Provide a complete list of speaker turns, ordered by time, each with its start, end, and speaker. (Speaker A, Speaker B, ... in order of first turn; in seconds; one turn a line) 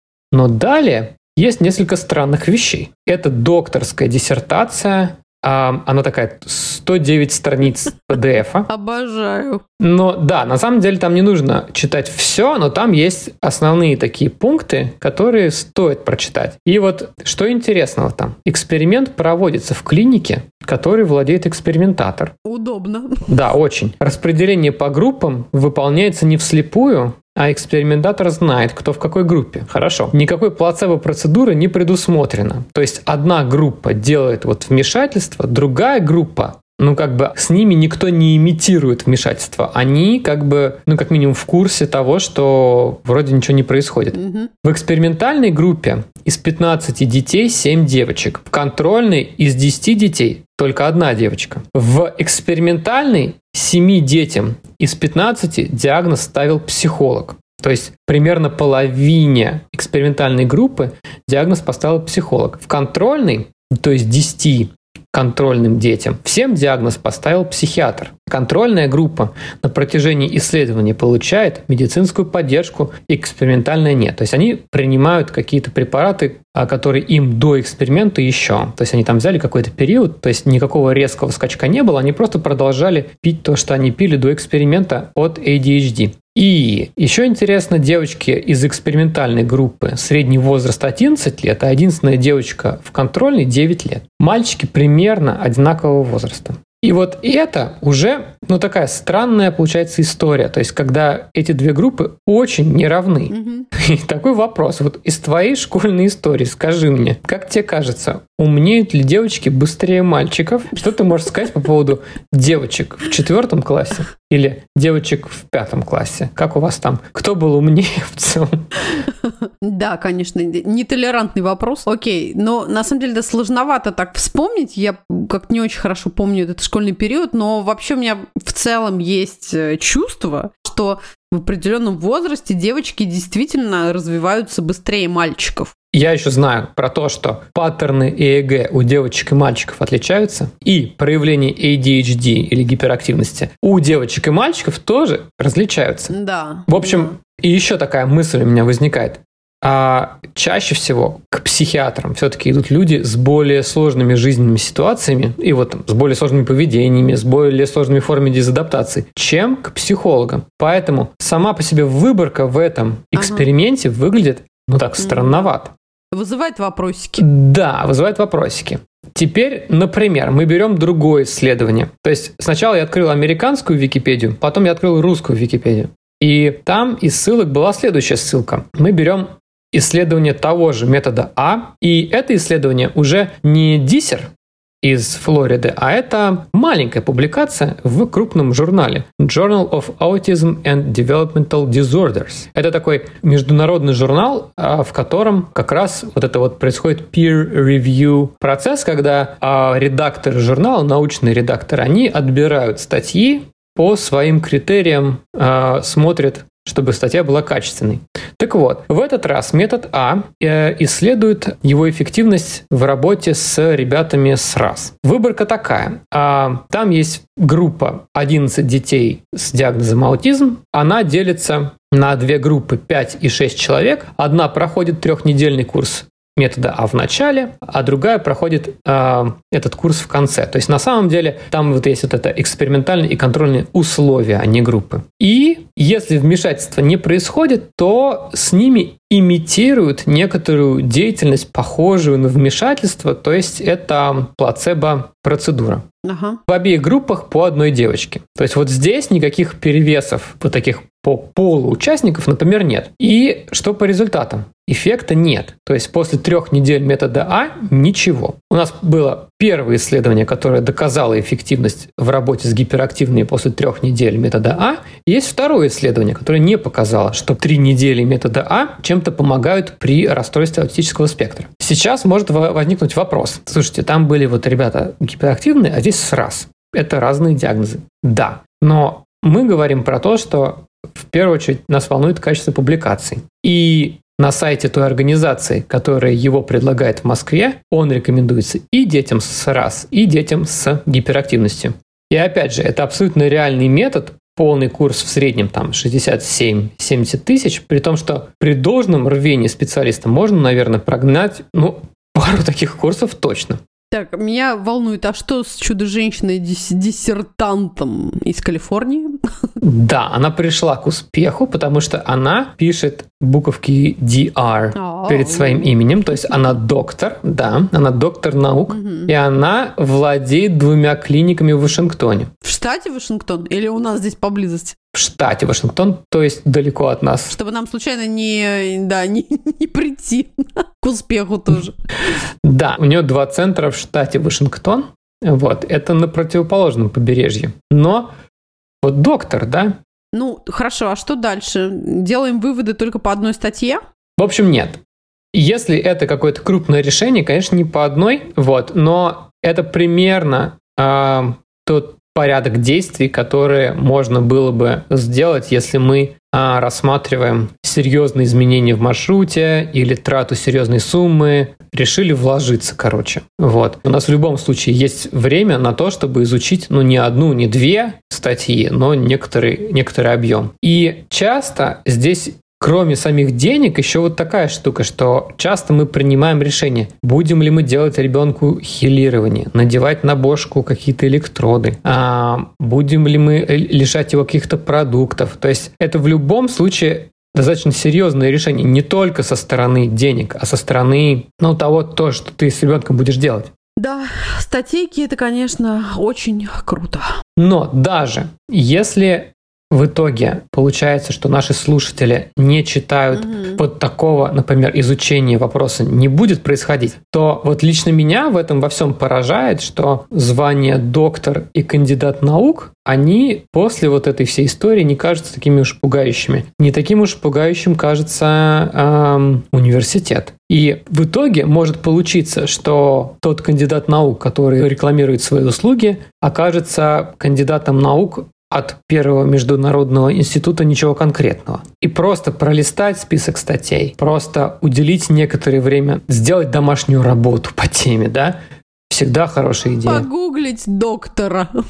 Speaker A: 0.3-8.7
Speaker B: 8.7-9.6
Speaker A: 9.8-22.3
Speaker B: 22.4-23.2
Speaker A: 23.2-119.0
Speaker B: 44.1-44.5
Speaker B: 103.3-103.7
Speaker B: 119.2-135.7
Speaker A: 135.9-146.1
Speaker B: 146.1-147.1
Speaker A: 146.7-165.7
Speaker B: 163.2-163.5
Speaker B: 165.0-165.5
Speaker B: 166.1-167.2
Speaker A: 167.2-184.3
Speaker A: 184.8-245.8
Speaker B: 246.0-246.4
Speaker A: 246.5-303.6
Speaker B: 303.9-309.2
Speaker A: 309.6-322.3
Speaker B: 314.7-315.7
Speaker B: 318.7-319.1
Speaker B: 322.4-324.8
Speaker A: 324.9-327.4
Speaker B: 327.3-331.7
Speaker A: 332.4-338.1
Speaker A: 338.8-339.8
Speaker B: 340.1-343.8
Speaker A: 344.2-344.8
Speaker A: 345.3-393.5
Speaker B: 393.8-397.2
Speaker A: 397.4-438.4
Speaker B: 403.1-403.6
Speaker A: 438.9-440.1
Speaker B: 439.8-441.5